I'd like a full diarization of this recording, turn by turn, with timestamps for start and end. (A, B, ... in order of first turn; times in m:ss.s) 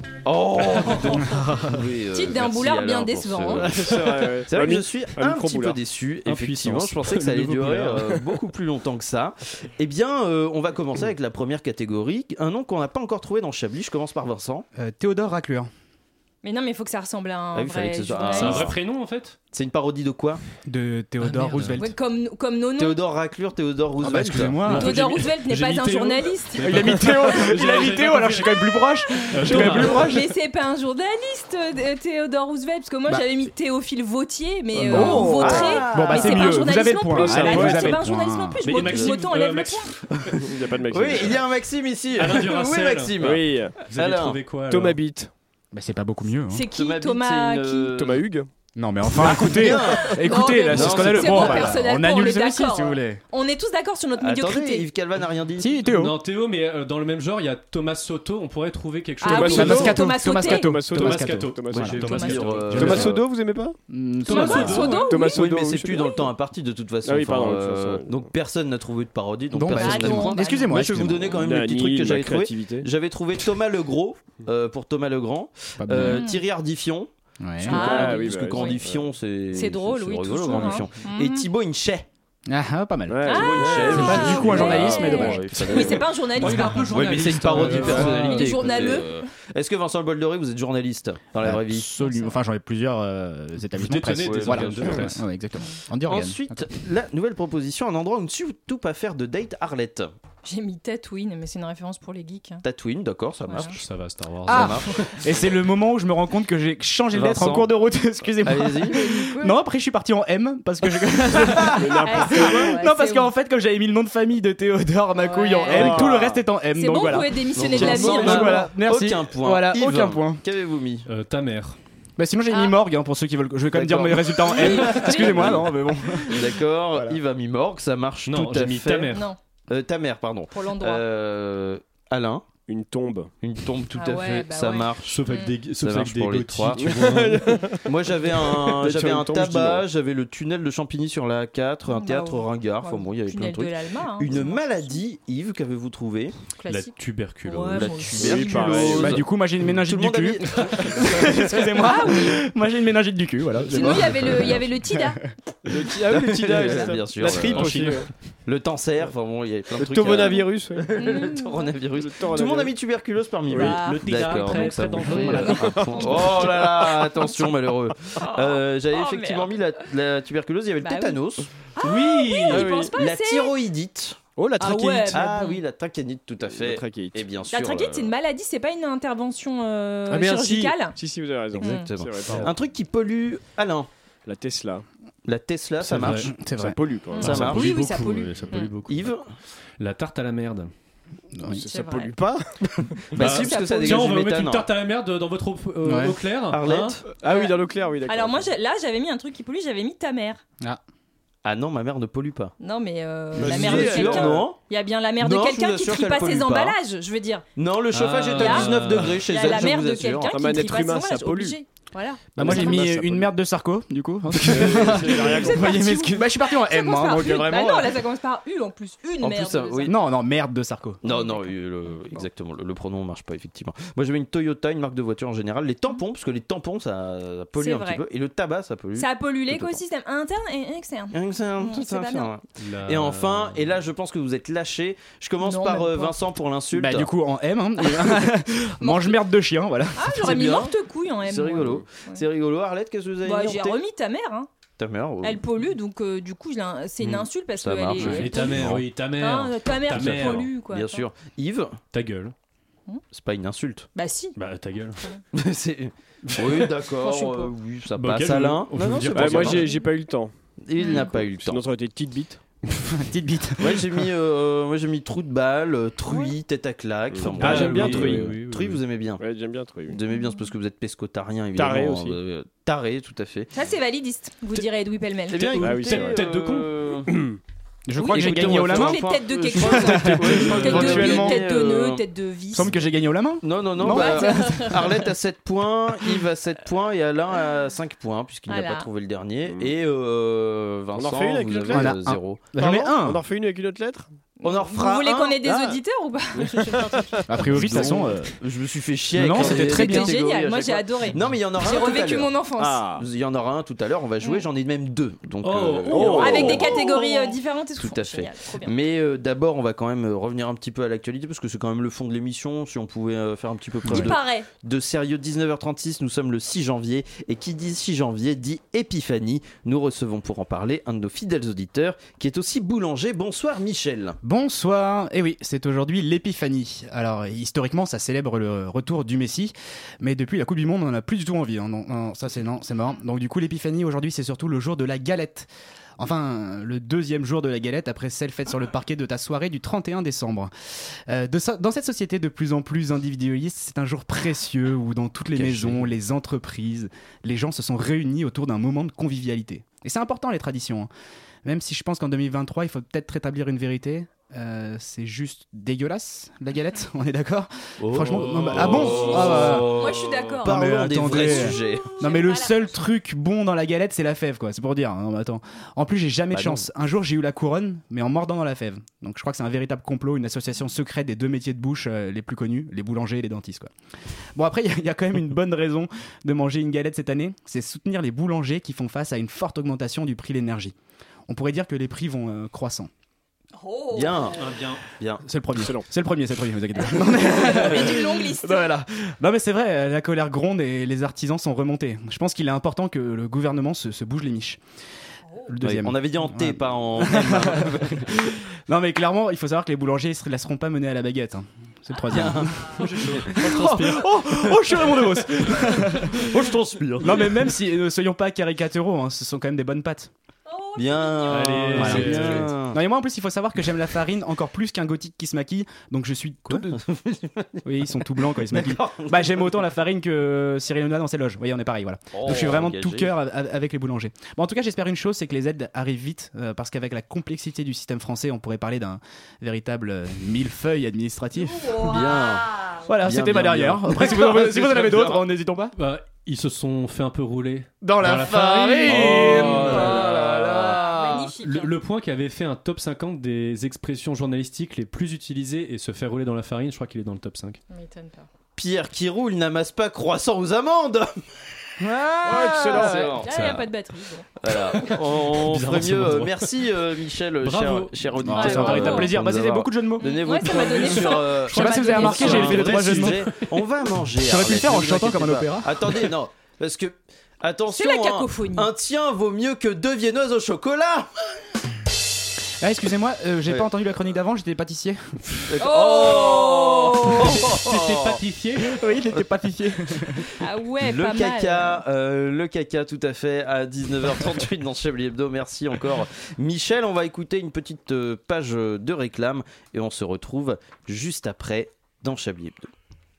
0:00.2-0:14.6 A
0:00.8-0:01.2 B
0:02.1-0:03.8 C
0:03.6-0:05.8 D
0:06.2-0:08.2 B
0:14.7-0:15.7 E
0:16.4-0:18.7 C
0:17.5-0:18.8 A
0:18.3-0:19.4 B
0:19.5-0:20.4 A
0:20.6-0:21.9 E
0:21.2-0:21.8 B
0:21.7-0:23.0 C
0:22.8-0:24.6 A
0:24.0-0:25.0 E
0:24.6-0:28.6 B
0:24.7-0:27.2 C
0:26.6-0:30.3 E
0:29.2-0:39.9 C
0:29.3-0:30.2 B
0:34.7-0:35.9 D
0:34.9-0:38.6 E
0:35.0-0:36.6 A
0:37.1-0:38.0 D
0:38.6-0:40.0 B
0:38.8-0:39.1 A
0:40.4-0:41.4 D
0:40.9-0:44.4 A
0:42.2-0:45.0 B
0:43.2-0:43.7 D
0:44.7-0:45.3 D
0:45.7-0:46.7 E
0:46.5-0:47.9 C
0:46.7-0:48.2 A
0:48.0-0:48.5 D
0:48.8-0:53.2 E
0:49.2-0:51.8 A
0:50.2-0:54.9 C
0:54.2-0:55.7 A
0:55.6-0:56.1 E
0:55.9-1:00.0 B
0:59.2-1:00.8 C
0:59.2-1:02.0 D
0:59.4-1:02.0 E
1:00.8-1:03.1 B
1:01.7-1:03.2 A
1:02.0-1:02.6 C
1:02.6-1:03.2 E
1:02.7-1:03.7 D
1:03.9-1:05.1 E
1:04.2-1:05.1 B
1:04.3-1:05.4 C
1:04.4-1:06.2 D
1:05.3-1:17.1 A
1:07.0-1:08.3 D
1:09.5-1:11.4 E
1:09.7-1:10.7 C
1:11.3-1:12.9 D
1:15.8-1:16.2 E
1:16.0-1:16.4 C
1:17.4-1:17.8 E
1:17.6-1:22.1 A
1:17.7-1:19.0 D
1:17.7-1:18.8 C
1:19.5-1:21.5 C
1:22.5-1:25.9 E
1:23.1-1:24.6 D
1:23.3-1:29.2 C
1:23.3-1:31.9 A
1:26.3-1:28.7 B
1:31.4-1:36.7 E
1:32.0-1:32.3 C
1:33.8-1:35.2 B
1:34.2-1:35.1 A
1:36.1-1:40.1 A
1:40.4-1:42.6 C
1:42.6-1:43.8 A
1:43.5-1:43.8 C
1:43.7-1:45.1 B
1:44.5-2:00.4 E
1:44.5-1:44.9 A
1:47.1-1:47.7 A
1:48.4-1:49.0 A
1:49.0-1:49.6 C
1:51.5-1:51.8 A
1:51.7-1:52.8 D
1:52.0-1:53.3 C
1:55.2-1:56.1 C
1:55.7-1:56.4 D
1:56.7-1:58.7 C
1:57.5-2:01.1 A
2:01.1-2:01.8 B
2:02.2-2:06.4 E
2:02.5-2:02.8 C
2:03.7-2:05.6 A
2:04.4-2:05.5 C
2:06.3-2:09.1 A
2:08.3-2:09.3 B
2:09.1-2:09.4 C
2:09.7-2:12.4 A
2:10.5-2:11.0 C
2:12.7-2:13.3 D
2:13.4-2:15.2 A
2:13.9-2:15.6 C
2:15.1-2:17.6 B
2:15.8-2:17.1 A
2:16.8-2:19.8 D
2:17.8-2:26.3 A
2:21.9-2:25.0 C
2:26.6-2:29.0 C
2:26.6-2:28.2 B
2:27.7-2:31.3 A
2:28.2-2:29.2 D
2:28.9-2:35.2 E
2:31.8-2:32.4 C
2:33.7-2:35.2 C
2:35.6-2:38.1 D
2:36.1-2:37.9 A
2:37.5-2:38.0 B
2:38.4-2:51.5 A
2:39.7-2:41.3 D
2:40.9-2:41.7 C
2:41.9-2:42.7 D
2:43.5-2:43.8 D
2:43.5-2:46.6 C
2:43.7-2:46.2 B
2:45.6-2:46.6 D
2:48.2-2:49.5 C
2:50.8-2:51.2 C
2:51.8-2:53.5 C
2:51.8-2:52.7 B
2:52.5-2:54.2 A
2:52.5-2:52.9 D
2:54.4-2:55.2 D
2:54.6-2:55.6 C
2:55.1-2:58.1 A
2:56.5-2:57.2 D
2:57.5-3:01.0 C
3:00.1-3:02.5 D
3:01.6-3:03.9 A
3:01.6-3:01.9 C
3:04.2-3:04.8 D
3:05.2-3:06.3 A
3:05.8-3:06.3 B
3:06.1-3:06.8 E
3:06.6-3:07.5 D
3:07.1-3:08.7 C
3:07.2-3:07.7 A
3:07.2-3:09.2 B
3:08.9-3:09.2 A
3:09.8-3:10.7 B
3:11.3-3:11.6 E
3:11.4-3:13.0 D
3:11.7-3:12.1 C
3:13.1-3:14.6 A
3:13.2-3:17.0 B
3:13.2-3:14.1 C
3:15.8-3:16.2 E
3:16.5-3:17.0 A
3:17.2-3:18.5 D
3:17.2-3:20.4 C
3:21.4-3:22.5 A
3:22.6-3:27.4 C
3:23.3-3:24.6 A
3:23.4-3:24.4 D
3:25.2-3:26.8 A
3:27.6-3:30.4 A
3:27.9-3:29.2 B
3:28.3-3:32.8 C
3:30.3-3:31.6 D
3:32.3-3:33.3 D
3:32.4-3:37.7 E
3:34.4-3:36.0 D
3:35.1-3:40.0 C
3:37.3-3:37.8 A
3:39.2-3:39.9 A
3:39.8-3:41.0 E
3:41.0-3:49.8 A
3:41.1-3:41.4 C
3:47.6-3:48.0 C
3:49.0-3:52.3 C
3:51.1-3:57.1 A
3:52.6-3:53.7 B
3:55.4-3:56.2 C
3:56.7-4:00.4 E
3:58.8-3:59.2 C
3:59.9-4:02.2 C
4:00.1-4:03.8 A
4:03.2-4:04.5 C
4:04.8-4:05.4 A
4:05.2-4:11.0 C
4:07.6-4:08.8 A
4:08.0-4:10.5 B
4:09.9-4:11.8 A
4:11.9-4:12.3 B
4:13.1-4:13.9 A
4:13.9-4:14.4 C
4:14.4-4:15.0 B
4:15.3-4:19.7 A
4:16.3-4:16.7 B
4:17.1-4:17.5 C
4:18.0-4:19.7 B
4:19.1-4:20.3 D
4:20.6-4:21.6 A
4:20.8-4:21.2 C
4:21.3-4:22.4 D
4:22.8-4:24.0 E
4:23.6-4:29.2 A
4:27.1-4:28.3 D
4:27.4-4:28.8 B
4:29.2-4:30.0 D
4:29.9-4:33.5 A
4:30.1-4:30.4 C
4:31.6-4:32.2 D
4:33.5-4:35.8 C
4:35.3-4:37.1 A
4:35.6-4:36.2 D
4:35.8-4:36.7 B
4:37.1-4:37.4 D
4:37.9-4:41.4 E
4:38.0-4:42.7 C
4:38.0-4:42.0 A
4:42.5-4:44.7 E
4:43.4-4:52.4 A
4:43.9-4:44.9 C
4:48.5-4:48.9 C
4:50.9-4:51.9 D
4:51.7-4:53.2 E
4:52.6-4:54.1 D
4:54.4-4:57.2 C
4:54.4-4:55.4 A
4:55.4-4:55.8 D
4:56.4-4:57.2 D
4:57.3-4:58.4 E
4:57.5-5:07.2 A
4:59.1-5:00.1 E
4:59.4-5:02.8 C
5:02.6-5:03.0 D
5:05.4-5:06.6 B
5:05.9-5:06.8 D
5:06.1-5:08.8 C
5:07.7-5:24.2 A
5:13.9-5:14.5 C
5:24.2-5:50.9 E
5:45.4-5:45.9 B
5:51.4-5:59.7 E
5:57.8-6:02.0 A
5:58.4-5:58.8 B
5:59.0-6:00.6 C
6:00.4-6:13.7 E
6:01.1-6:02.8 C
6:06.3-6:06.6 A
6:14.3-6:20.7 E
6:21.3-6:22.9 E
6:23.6-6:24.2 C
6:23.9-6:25.2 A
6:24.4-6:24.8 B
6:25.2-6:34.6 E
6:25.6-6:25.8 D
6:27.1-6:28.7 C
6:35.5-6:46.3 E
6:35.6-6:38.1 A
6:42.1-6:42.7 A
6:42.8-6:45.2 B
6:46.3-6:47.3 A
6:47.0-6:50.1 E
6:50.5-6:51.5 C
6:50.7-6:52.8 A
6:51.3-6:52.5 B
6:51.7-6:56.8 E
6:56.5-6:57.6 A
6:57.6-7:12.0 E
6:58.4-6:59.4 A
7:02.1-7:03.1 A
7:11.8-7:15.2 A
7:12.8-7:15.7 E
7:15.8-7:20.7 B
7:17.9-7:21.1 D
7:18.0-7:19.7 E
7:18.9-7:20.6 A
7:20.7-7:21.7 C
7:21.4-7:27.6 B
7:27.7-7:28.3 C
7:28.6-7:31.1 A
7:31.8-7:33.0 E
7:32.2-7:33.2 D
7:32.7-7:33.6 A
7:32.8-7:34.3 C
7:33.3-7:33.6 B
7:34.4-7:51.1 A
7:34.9-7:36.6 B
7:37.4-7:38.8 B
7:38.2-7:40.0 E
7:38.3-7:39.1 C
7:40.0-7:42.6 C
7:40.5-7:43.4 B
7:41.5-7:43.3 E
7:44.2-7:46.1 E
7:47.7-7:48.7 C
7:52.6-7:55.0 E
7:55.5-7:58.2 A
7:55.6-7:57.4 C
7:57.3-7:58.8 B
7:58.6-8:00.2 E
8:00.4-8:01.8 C
8:00.8-8:12.7 A